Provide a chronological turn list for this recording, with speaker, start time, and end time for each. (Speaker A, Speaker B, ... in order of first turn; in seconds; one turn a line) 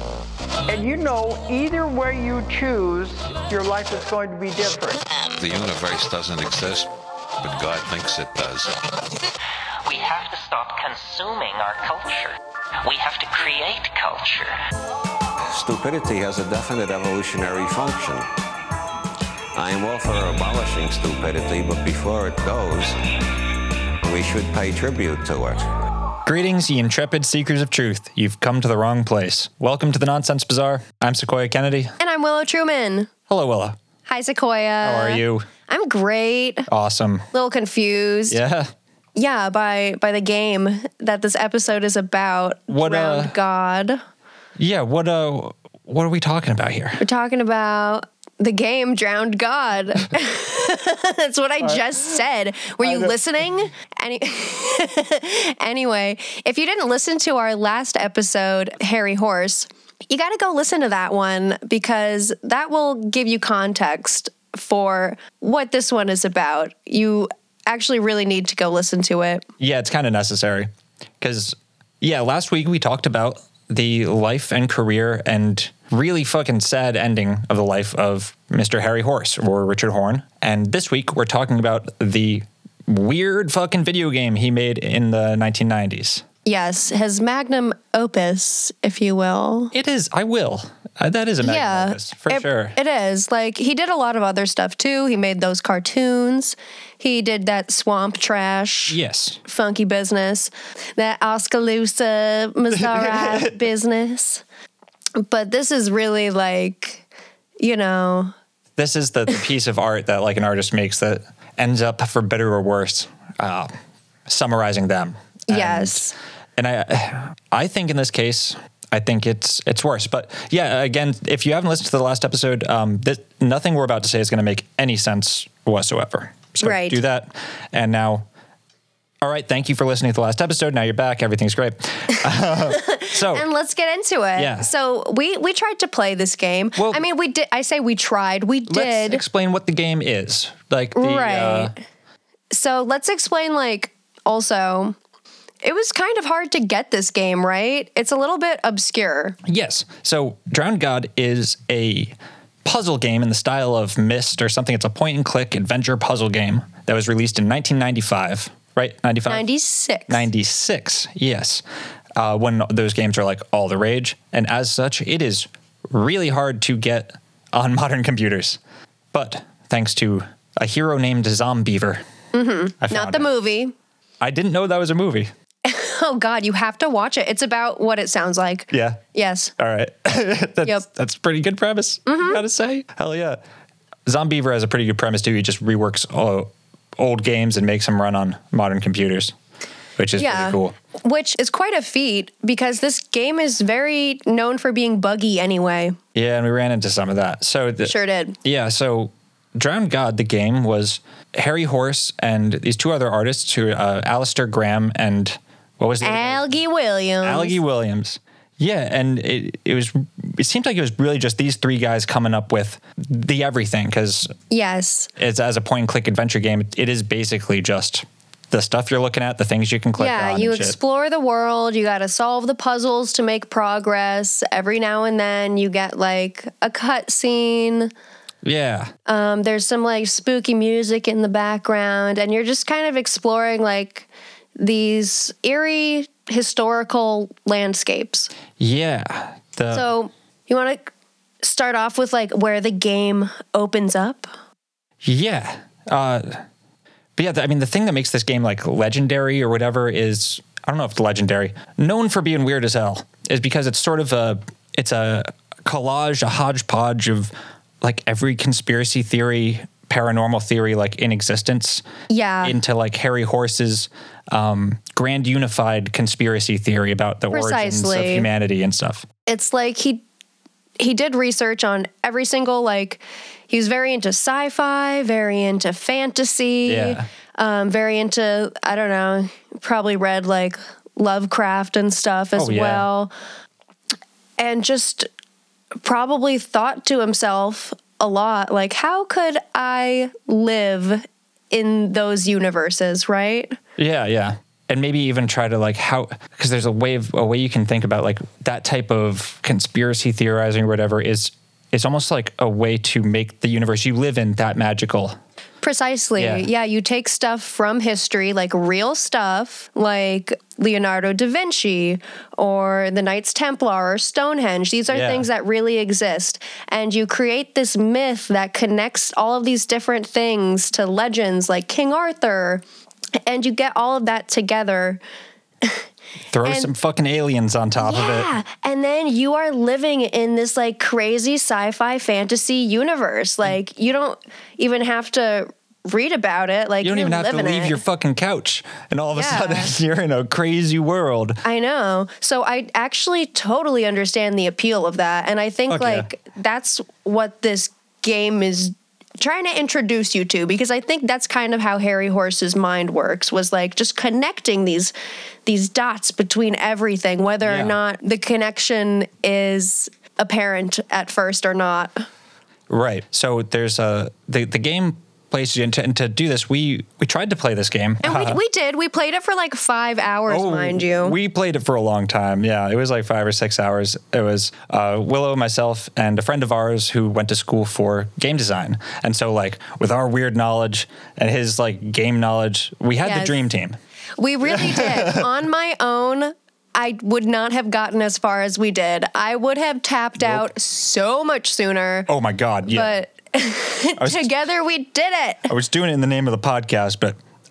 Speaker A: 0.7-5.0
Speaker B: 5.4-6.9
Speaker B: 7.4-8.8
Speaker C: 9.8-12.3
Speaker C: 12.8-14.5
Speaker D: 15.5-18.3
Speaker D: 19.5-23.0
Speaker D: 24.0-25.7
Speaker E: 26.2-31.9
Speaker F: 32.0-33.1
Speaker E: 33.3-33.8
Speaker F: 34.1-36.7
Speaker E: 34.8-35.5
Speaker E: 36.7-37.2
Speaker F: 37.3-38.4
Speaker E: 38.3-38.7
Speaker F: 39.1-44.0
Speaker E: 42.7-43.4
Speaker E: 44.6-47.0
Speaker F: 47.0-69.5
Speaker E: 52.8-53.1
Speaker E: 69.6-86.2
Speaker F: 86.4-89.7
Speaker E: 89.7-92.7
Speaker F: 91.4-104.4
Speaker E: 98.9-99.4
Speaker E: 102.7-103.6
Speaker F: 105.2-107.0
Speaker F: 107.6-108.3
Speaker E: 108.8-113.7
Speaker E: 114.3-128.2
Speaker F: 115.5-116.1
Speaker F: 126.6-127.0
Speaker E: 129.2-133.4
Speaker F: 132.6-139.2
Speaker E: 134.3-134.7
Speaker E: 136.8-137.0
Speaker E: 138.7-141.7
Speaker F: 140.9-141.8
Speaker F: 142.5-145.0
Speaker F: 145.6-149.4
Speaker E: 149.4-159.5
Speaker F: 159.3-160.2
Speaker E: 160.1-161.6
Speaker E: 162.2-168.6
Speaker E: 169.1-172.0
Speaker F: 172.3-173.7
Speaker E: 172.8-173.3
Speaker E: 174.2-175.3
Speaker F: 175.6-179.5
Speaker E: 178.7-179.0
Speaker E: 179.6-183.4
Speaker F: 182.1-182.4
Speaker E: 184.1-189.3
Speaker E: 190.0-190.7
Speaker F: 190.2-196.0
Speaker E: 196.1-197.9
Speaker F: 197.8-198.4
Speaker E: 198.4-206.4
Speaker F: 206.0-207.6
Speaker E: 207.2-214.3
Speaker F: 214.5-215.1
Speaker E: 215.2-220.8
Speaker F: 220.0-227.9
Speaker E: 228.4-228.9
Speaker F: 229.1-238.3
Speaker E: 238.6-239.8
Speaker F: 239.7-240.9
Speaker F: 241.4-244.3
Speaker E: 245.0-246.4
Speaker E: 247.2-261.8
Speaker F: 262.1-262.6
Speaker E: 262.4-269.1
Speaker F: 267.3-268.3
Speaker F: 269.3-270.0
Speaker F: 270.8-283.1
Speaker E: 276.6-277.1
Speaker E: 282.4-282.8
Speaker F: 284.4-285.1
Speaker F: 285.8-293.6
Speaker E: 293.8-305.2
Speaker F: 305.6-322.6
Speaker E: 306.2-306.4
Speaker E: 314.9-315.3
Speaker F: 323.2-325.0
Speaker E: 326.3-328.3
Speaker F: 326.4-326.7
Speaker F: 327.8-337.8
Speaker E: 336.8-341.4
Speaker F: 339.1-339.7
Speaker F: 341.4-354.9
Speaker E: 345.7-346.1
Speaker F: 355.4-362.0
Speaker E: 357.4-357.7
Speaker E: 362.7-368.4
Speaker F: 368.0-371.1
Speaker E: 370.3-383.8
Speaker F: 383.0-383.3
Speaker F: 384.2-392.1
Speaker E: 384.4-385.3
Speaker E: 390.2-390.5
Speaker E: 392.1-392.9
Speaker F: 392.7-395.5
Speaker E: 394.0-394.3
Speaker E: 395.5-397.1